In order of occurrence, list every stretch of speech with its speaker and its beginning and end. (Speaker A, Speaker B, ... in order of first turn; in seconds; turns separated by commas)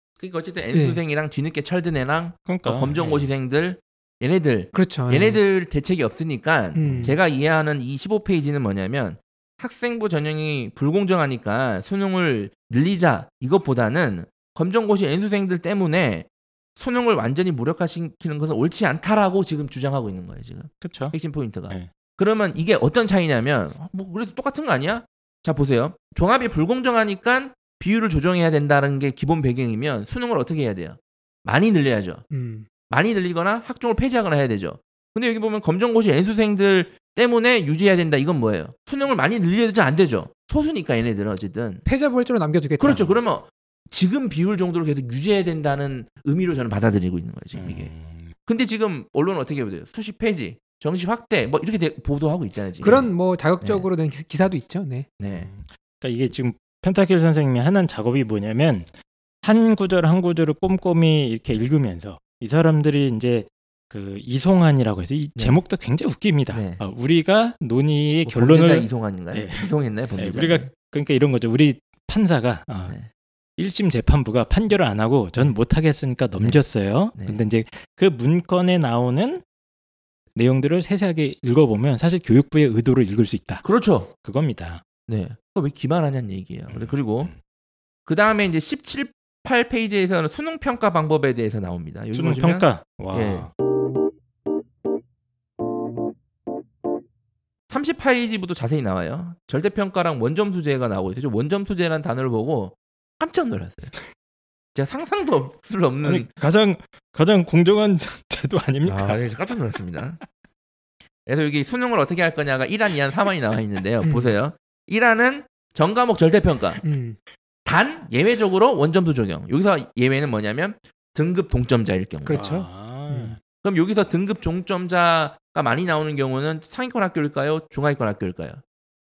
Speaker A: 0.2-32.2, Speaker B: 0.7-1.0, Speaker C: 2.5-3.3, Speaker B: 4.7-5.4, Speaker B: 6.8-7.2, Speaker C: 20.8-21.1, Speaker B: 32.3-32.7, Speaker A: 32.9-41.9, Speaker B: 41.9-43.1, Speaker A: 42.8-47.9, Speaker C: 47.5-48.3, Speaker A: 48.5-53.1, Speaker B: 52.8-55.1, Speaker A: 53.6-53.9, Speaker A: 55.2-55.5, Speaker C: 55.3-73.0, Speaker A: 66.5-66.8, Speaker A: 68.3-70.7, Speaker C: 73.6-79.4, Speaker A: 77.1-77.4, Speaker C: 80.3-83.7, Speaker A: 83.6-84.1, Speaker C: 84.2-84.8, Speaker A: 85.1-87.3, Speaker C: 86.7-87.4, Speaker A: 88.1-93.5, Speaker C: 92.1-93.5, Speaker A: 97.7-104.0, Speaker A: 104.8-106.3, Speaker C: 106.0-109.2, Speaker A: 108.8-110.2, Speaker A: 111.3-116.8, Speaker B: 114.0-114.3, Speaker B: 116.8-117.2, Speaker A: 117.7-122.5, Speaker B: 122.2-123.3, Speaker C: 122.3-123.4, Speaker A: 123.6-128.6